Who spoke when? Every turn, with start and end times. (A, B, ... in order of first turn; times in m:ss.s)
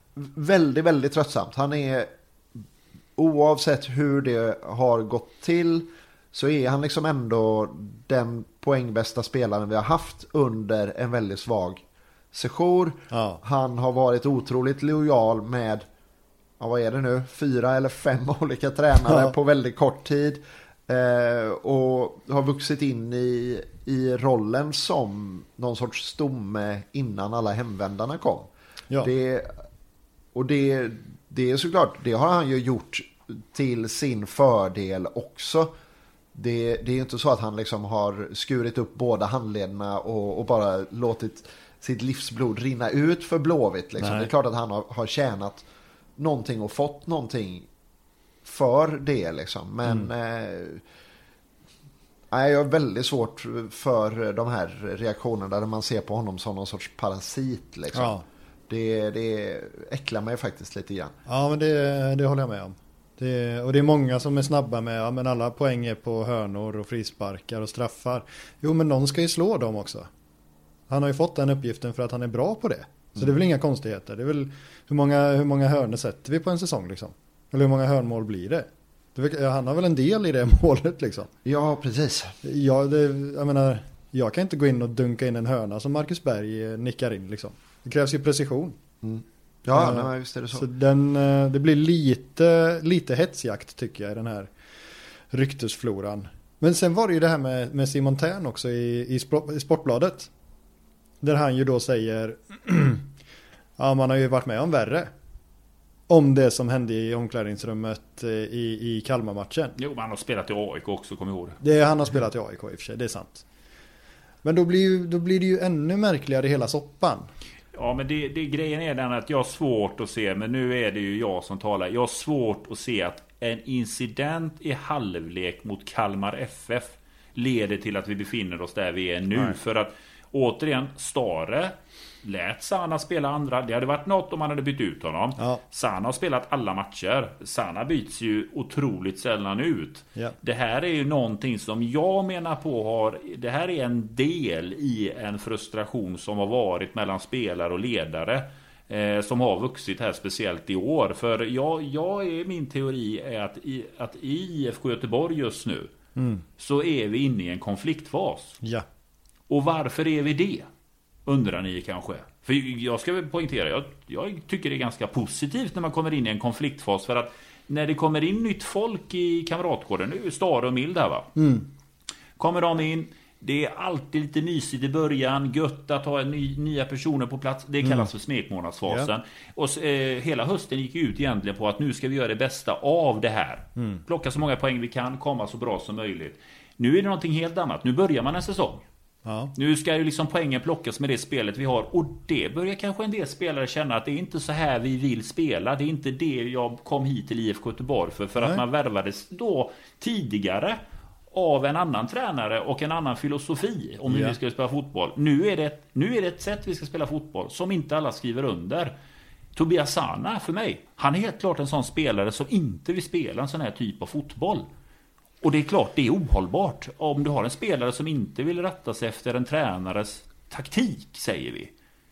0:00.2-0:02.1 A
0:03.2-0:11.8 A
0:12.3-0:15.8 A
0:13.1-0:13.4 B
0:16.6-0:28.5 A
0:19.0-0:19.3 B
0:29.0-0:29.5 A
0:30.3-0:35.7 A
0:36.3-0:45.6 A
0:44.0-0:44.3 B
0:46.2-0:47.7 A
0:48.4-0:50.8 A
0:52.3-0:58.1 A
0:57.9-0:58.2 B
0:58.7-1:01.1 A
1:01.3-1:10.1 B
1:10.9-1:21.3 B
1:21.4-1:22.4 A
1:22.4-1:28.8 B
1:29.0-1:30.7 A
1:29.7-1:34.5 B
1:35.3-1:40.3 B
1:41.2-1:43.0 B
1:43.8-1:45.1 B
1:46.1-1:49.7 B
1:49.8-1:51.6 C
1:51.6-1:53.4 B
1:54.4-1:57.3 B
1:57.7-2:35.9 C
2:36.2-2:36.4 B
2:36.6-2:38.6 C
2:39.5-2:40.7 C
2:41.2-2:51.3 C
2:51.4-2:51.7 B
2:52.4-3:08.8 C
2:57.8-2:58.1 B
3:03.8-3:04.0 B
3:09.2-3:09.5 B
3:09.5-3:20.8 C
3:21.3-3:28.9 C
3:24.1-3:24.4 B
3:29.5-3:34.7 C
3:35.4-3:41.7 C